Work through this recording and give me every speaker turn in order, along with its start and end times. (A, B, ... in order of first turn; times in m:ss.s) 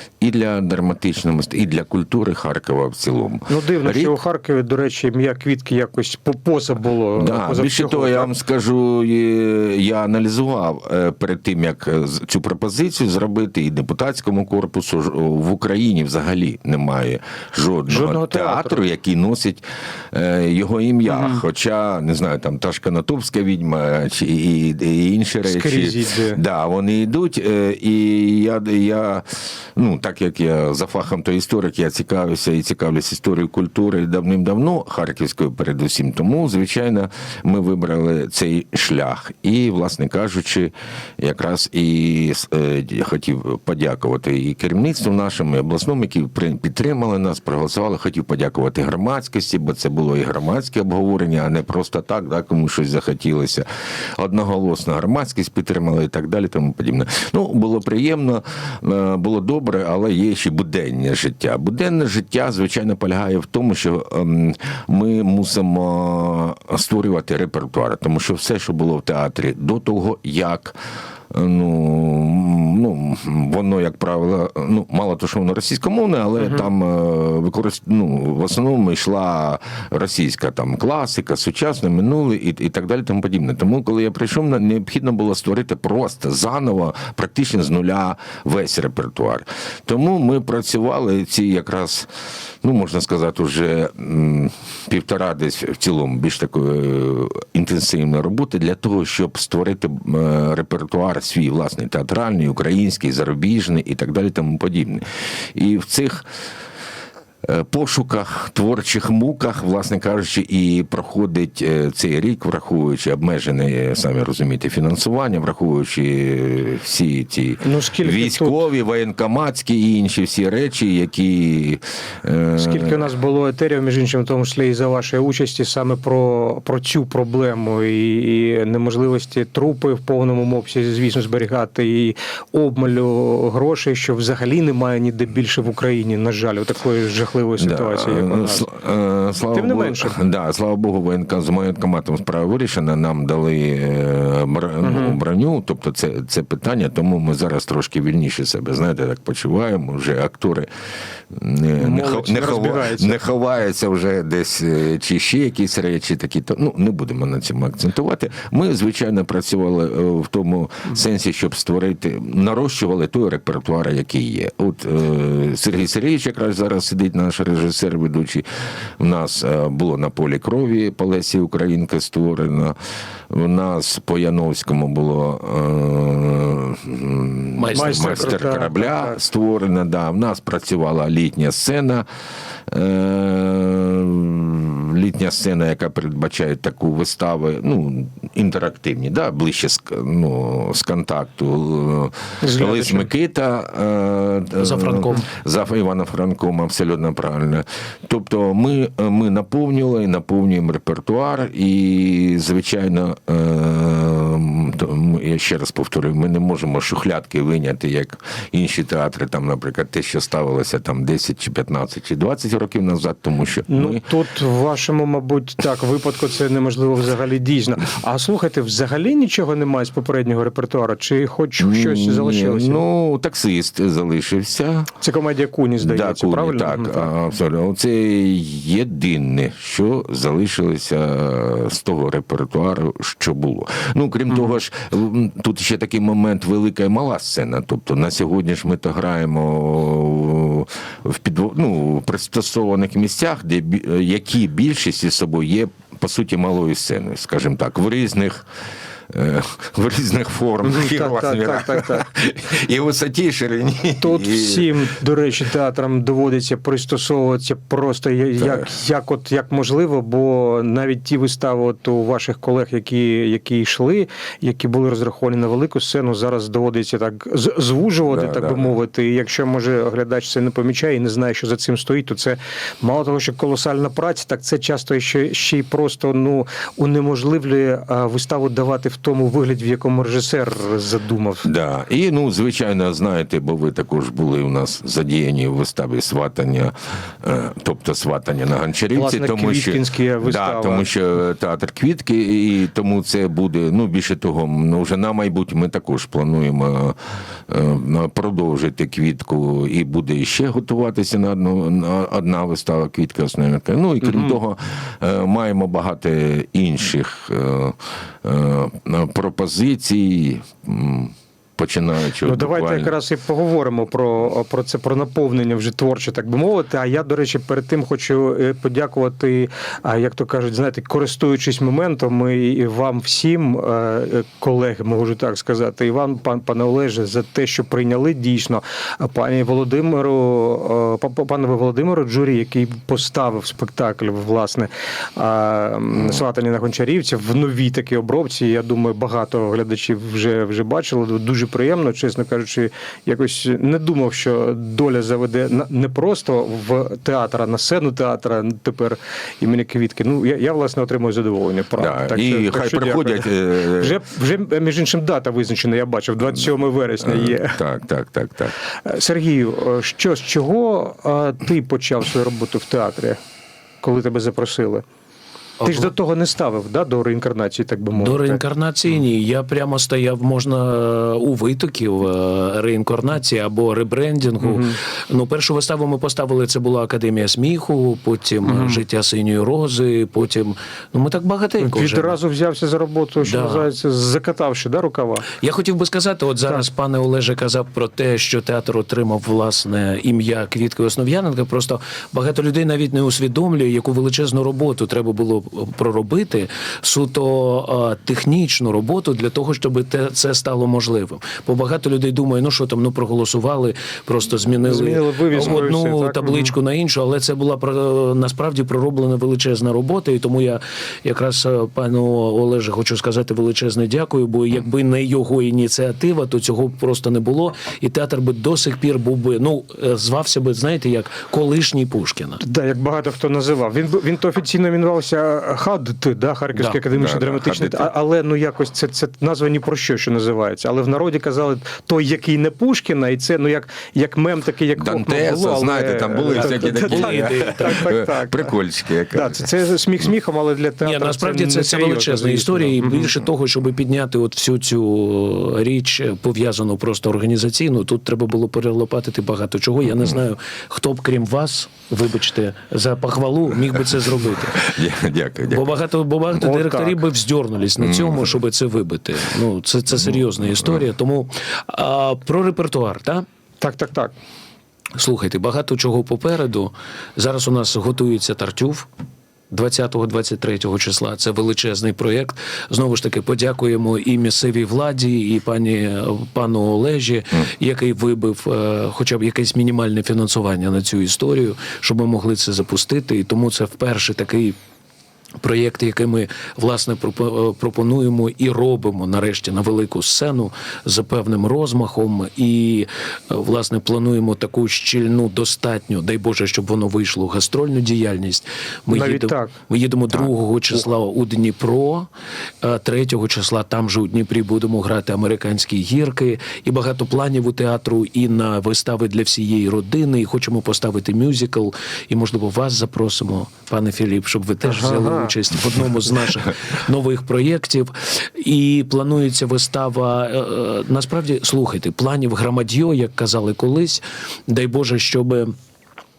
0:00.2-0:04.2 A
0:03.5-0:08.3 B
0:07.2-1:10.8 A
0:17.9-0:18.8 B
0:21.1-0:21.4 B
0:25.4-0:26.4 B
1:11.3-1:32.1 A
1:32.6-1:46.3 A
1:47.4-2:03.0 A
1:57.6-1:58.6 B
2:02.6-2:18.7 B
2:17.6-2:30.7 A
2:19.5-2:20.2 B
2:24.8-2:25.2 B
2:31.3-2:52.8 A
2:31.8-2:33.2 B
2:53.3-3:02.0 A
2:57.6-2:58.2 C
2:57.7-2:59.2 B
3:02.7-3:34.0 A
3:12.4-3:13.1 B
3:14.6-3:15.2 C
3:33.7-3:42.8 B
3:41.6-3:44.9 A
3:45.0-3:47.1 B
3:45.8-4:08.5 A
4:09.1-4:14.7 A
4:10.6-4:12.1 B
4:14.0-4:41.5 B
4:18.4-4:18.7 A
4:28.1-4:28.7 A
4:41.4-5:12.9 A
4:48.9-4:50.9 B
5:04.0-5:04.4 B
5:12.2-5:57.6 B
5:51.8-5:54.0 A
5:57.0-5:58.6 A
5:58.8-6:03.2 B
6:03.8-6:04.8 B
6:05.6-6:05.9 C
6:05.6-6:08.4 B
6:08.0-6:22.2 C
6:14.4-6:14.8 B
6:18.5-6:18.8 B
6:21.6-6:25.3 B
6:23.2-6:23.7 C
6:25.4-7:02.4 C
6:44.6-6:46.5 B
7:02.4-7:18.5 B
7:06.6-7:06.8 C
7:07.0-7:07.9 A
7:14.8-7:19.4 A
7:16.4-7:17.9 C
7:19.1-7:23.1 B
7:20.8-7:34.7 C
7:34.5-7:35.8 A
7:35.5-7:43.2 C
7:36.4-7:37.0 B
7:37.8-7:38.4 A
7:43.6-7:44.1 B
7:45.0-7:48.9 C
7:49.5-8:04.6 C
8:05.4-8:22.1 C
8:18.9-8:19.5 B
8:22.6-8:45.6 C
8:34.6-8:35.4 B